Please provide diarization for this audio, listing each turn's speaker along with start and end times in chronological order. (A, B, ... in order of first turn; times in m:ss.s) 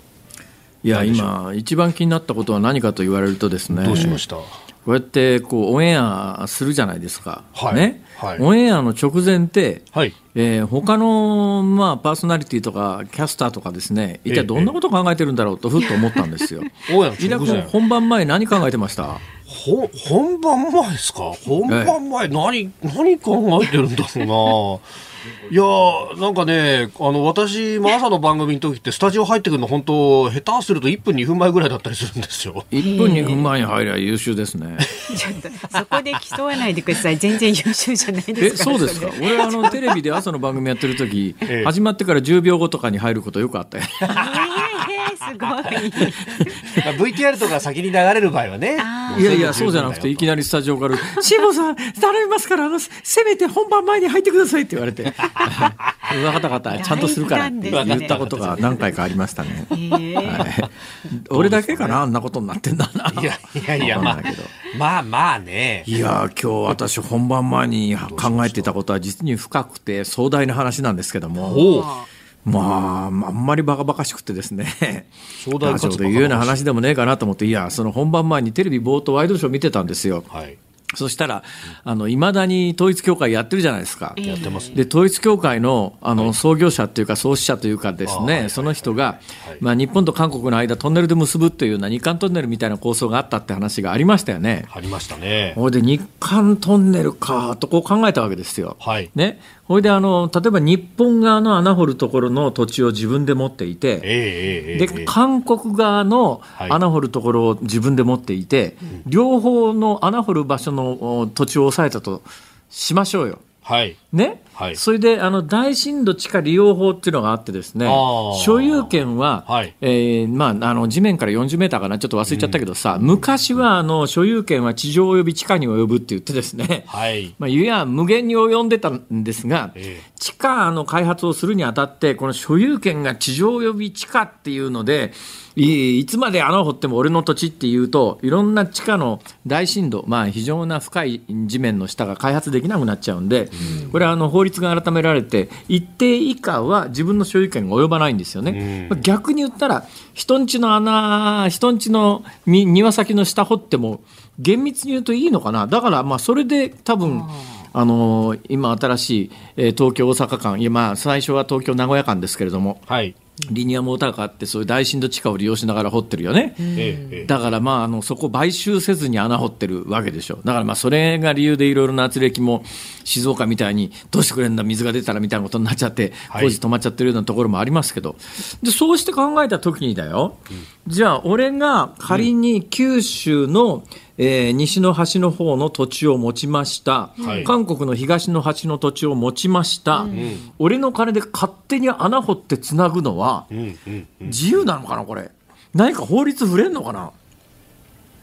0:00.8-0:04.2 A
0:00.9-0:01.3 B
0:03.7-0:04.6 B
0:04.8-0:19.2 A
0:07.6-0:08.4 B
0:14.3-0:14.7 B
0:16.9-0:17.7 B
0:19.5-0:32.7 B
0:21.7-0:22.0 A
0:32.7-0:35.0 A
0:32.8-0:33.4 C
0:35.1-0:39.8 C
0:38.4-0:44.4 A
0:44.1-0:44.4 B
0:44.1-0:46.5 C
0:45.7-0:46.1 B
0:46.7-0:50.3 B
0:48.8-0:49.6 C
0:49.2-1:04.5 A
0:55.4-0:55.9 B
0:56.7-0:58.1 C
0:57.7-0:58.9 B
0:59.7-1:00.5 C
1:00.2-1:00.6 B
1:01.3-1:02.0 B
1:03.1-1:05.9 B
1:05.9-1:11.7 A
1:08.0-1:08.8 B
1:11.4-1:12.1 C
1:11.4-1:12.0 B
1:12.4-1:20.3 A
1:15.4-1:16.6 B
1:20.3-1:20.6 B
1:20.9-1:34.7 A
1:24.2-1:24.8 C
1:24.2-1:24.8 B
1:28.1-1:29.6 B
1:34.7-1:35.6 B
1:35.6-1:44.1 A
1:38.8-1:39.1 B
1:44.0-1:45.1 B
1:44.7-1:53.4 A
1:53.6-1:54.0 B
1:54.1-2:42.8 A
1:54.6-1:54.8 B
1:57.8-1:59.7 B
2:02.3-2:02.6 B
2:06.9-2:07.3 B
2:09.8-2:10.0 B
2:23.6-2:24.0 B
2:23.6-2:23.9 C
2:28.5-2:29.0 B
2:37.0-2:37.7 C
2:42.9-2:43.2 B
2:43.4-3:13.5 A
2:46.6-2:47.2 C
2:46.8-2:47.3 B
3:07.2-3:07.5 C
3:07.2-3:07.5 B
3:10.1-3:10.4 C
3:10.1-3:10.5 B
3:13.5-3:14.4 B
3:14.2-3:17.1 A